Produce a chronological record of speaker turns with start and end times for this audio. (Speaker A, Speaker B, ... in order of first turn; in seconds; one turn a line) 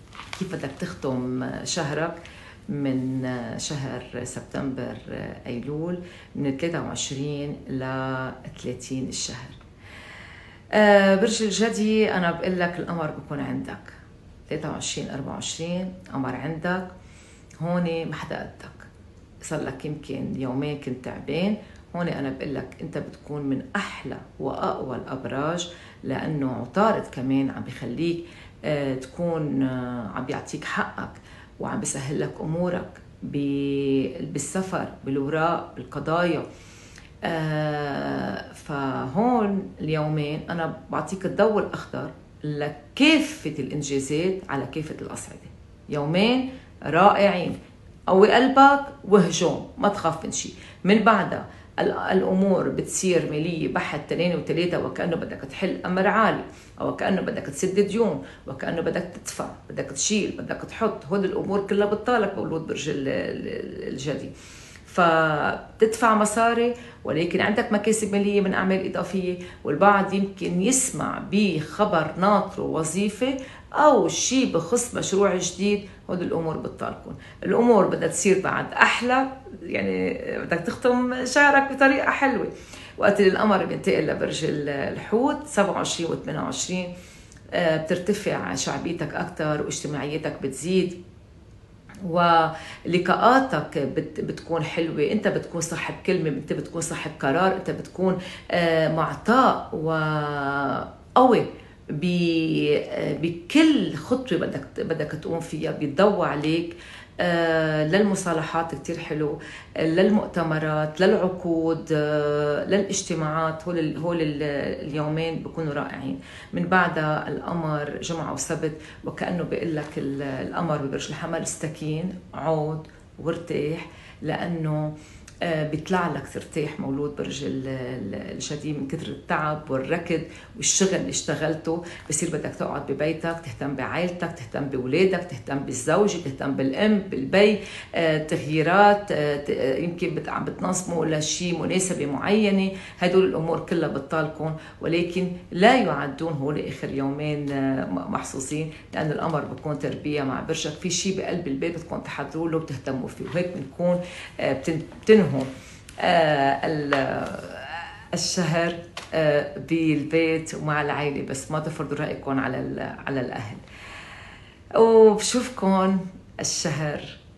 Speaker A: 0.4-2.2
Speaker A: 2.7-9.6
Speaker A: 10.7-14.0
Speaker A: 14.5-16.9
Speaker A: 17.6-18.9
Speaker A: 19.4-36.5
Speaker A: 37.2-47.6
Speaker A: 48.1-64.3
Speaker A: 64.9-86.9
Speaker A: 87.5-91.0
Speaker A: 92.0-155.5
Speaker A: 156.0-163.6
Speaker A: 164.8-167.2